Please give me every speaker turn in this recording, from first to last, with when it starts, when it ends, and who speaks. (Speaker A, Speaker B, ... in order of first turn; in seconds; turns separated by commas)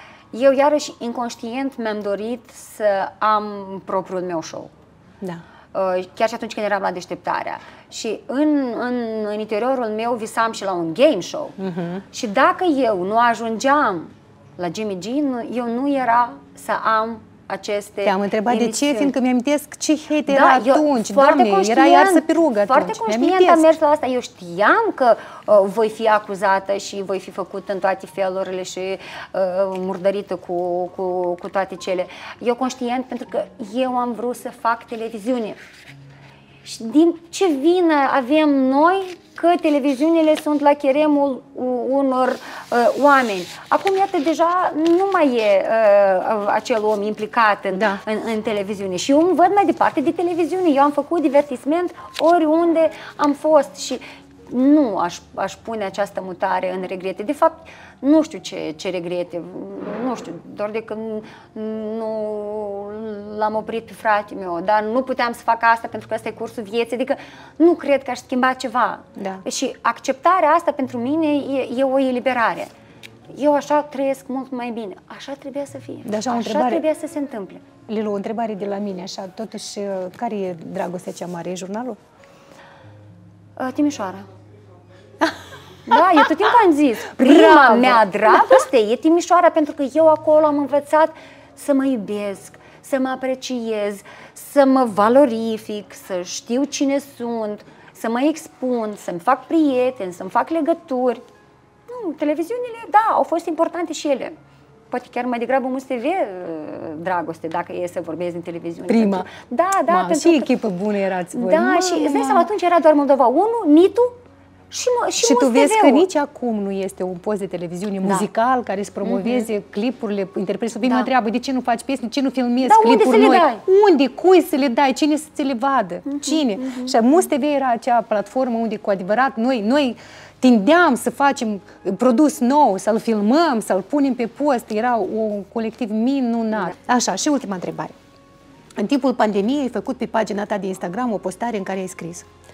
Speaker A: 0.3-4.7, Speaker A: 5.7-11.6, Speaker B: 11.6-12.0, Speaker A: 12.1-19.1, Speaker B: 18.0-23.7, Speaker A: 20.3-35.6, Speaker A: 36.6-72.7, Speaker B: 47.7-48.0, Speaker B: 69.2-69.4, Speaker A: 73.3-77.6, Speaker B: 76.0-76.8, Speaker B: 77.8-82.0, Speaker A: 83.6-84.3, Speaker A: 85.9-101.2, Speaker B: 85.9-86.3, Speaker B: 87.1-88.6, Speaker A: 101.9-104.3, Speaker A: 104.9-110.5, Speaker B: 108.9-109.3, Speaker B: 109.9-112.5, Speaker A: 111.3-114.2, Speaker A: 114.7-116.0, Speaker B: 115.2-137.9, Speaker A: 118.0-118.3, Speaker A: 119.0-119.5, Speaker A: 122.6-123.6, Speaker A: 126.1-126.9, Speaker B: 138.8-142.3